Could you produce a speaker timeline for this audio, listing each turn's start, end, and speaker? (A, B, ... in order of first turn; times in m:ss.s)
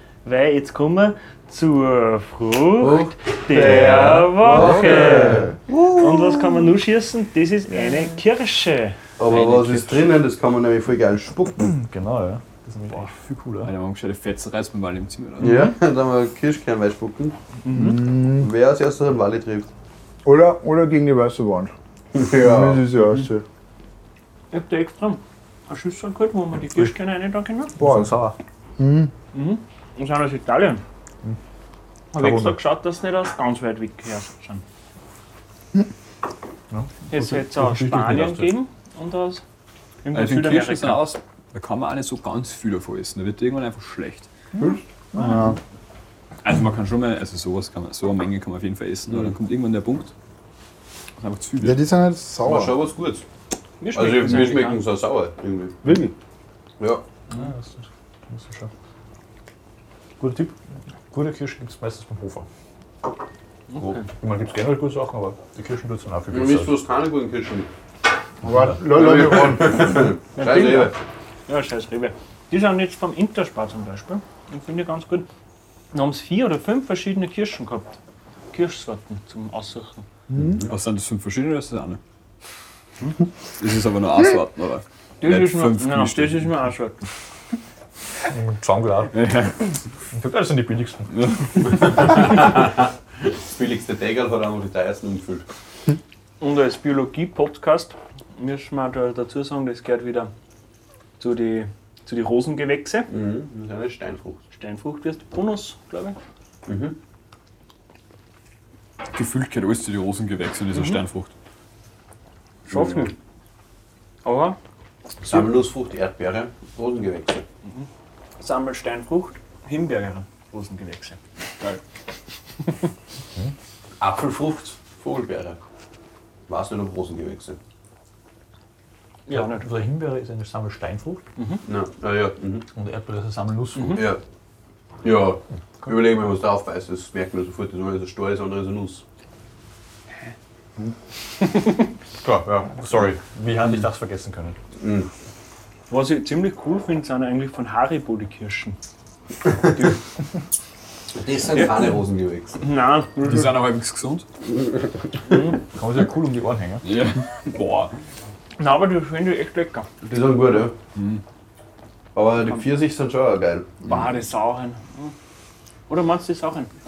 0:00.2-0:09.0 A
0:02.8-0:05.6 B
0:03.8-0:04.2 C
0:09.2-0:11.7 B
0:09.2-0:10.2 C
0:11.6-0:13.7 D
0:13.6-0:15.7 C
0:15.4-0:19.7 B
0:17.6-0:18.0 A
0:17.7-0:18.5 E
0:20.2-0:23.4 E
0:22.1-0:22.9 B
0:24.5-0:27.8 A
0:27.8-0:28.4 D
0:27.8-0:28.1 E
0:28.8-0:29.1 E
0:29.3-0:30.8 A
0:32.1-0:34.6 A
0:32.2-0:32.6 D
0:36.7-0:38.5 D
0:37.1-0:39.4 A
0:40.0-0:41.1 A
0:40.1-0:44.3 C
0:45.1-0:45.6 E
0:46.4-0:50.1 C
0:51.2-0:51.8 C
0:51.6-0:52.8 E
0:52.4-0:53.2 B
0:53.8-0:54.8 A
0:53.9-0:56.0 B
0:57.3-0:58.7 D
1:00.2-1:00.6 D
1:01.1-1:02.5 D
1:03.7-1:04.0 A
1:04.1-1:06.8 D
1:06.3-1:07.7 B
1:08.4-1:10.1 E
1:08.9-1:11.0 B
1:10.4-1:11.0 A
1:11.5-1:15.3 A
1:15.9-1:18.0 A
1:18.5-1:20.1 A
1:20.3-1:20.6 E
1:20.3-1:20.7 B
1:20.7-1:22.0 C
1:23.6-1:26.5 C
1:25.2-1:27.1 A
1:28.3-1:29.2 D
1:29.1-1:29.7 C
1:30.1-1:31.2 D
1:31.1-1:32.2 C
1:32.0-1:35.4 B
1:36.4-1:40.3 A
1:41.2-1:43.1 A
1:43.1-1:44.4 B
1:44.5-1:46.2 A
1:46.7-1:47.0 B
1:49.1-1:51.3 C
1:52.7-1:53.1 A
1:52.7-1:53.1 B
1:54.2-1:54.6 A
1:55.2-1:57.4 B
1:58.4-2:01.2 A
2:04.0-2:05.6 B
2:06.5-2:07.6 B
2:09.3-2:09.7 A
2:09.3-2:11.2 D
2:11.4-2:11.6 A
2:11.6-2:12.6 B
2:12.7-2:14.1 D
2:13.8-2:14.0 A
2:14.0-2:14.2 B
2:15.0-2:19.0 B
2:22.2-2:24.6 D
2:24.8-2:25.1 B
2:25.9-2:28.8 A
2:31.2-2:32.6 B
2:32.6-2:33.5 A
2:33.2-2:34.2 C
2:35.3-2:35.6 A
2:35.7-2:36.9 D
2:36.8-2:37.9 C
2:38.6-2:39.9 A
2:40.0-2:40.8 B
2:41.0-2:41.2 C
2:42.2-2:43.8 B
2:43.8-2:45.1 A
2:45.9-2:46.7 A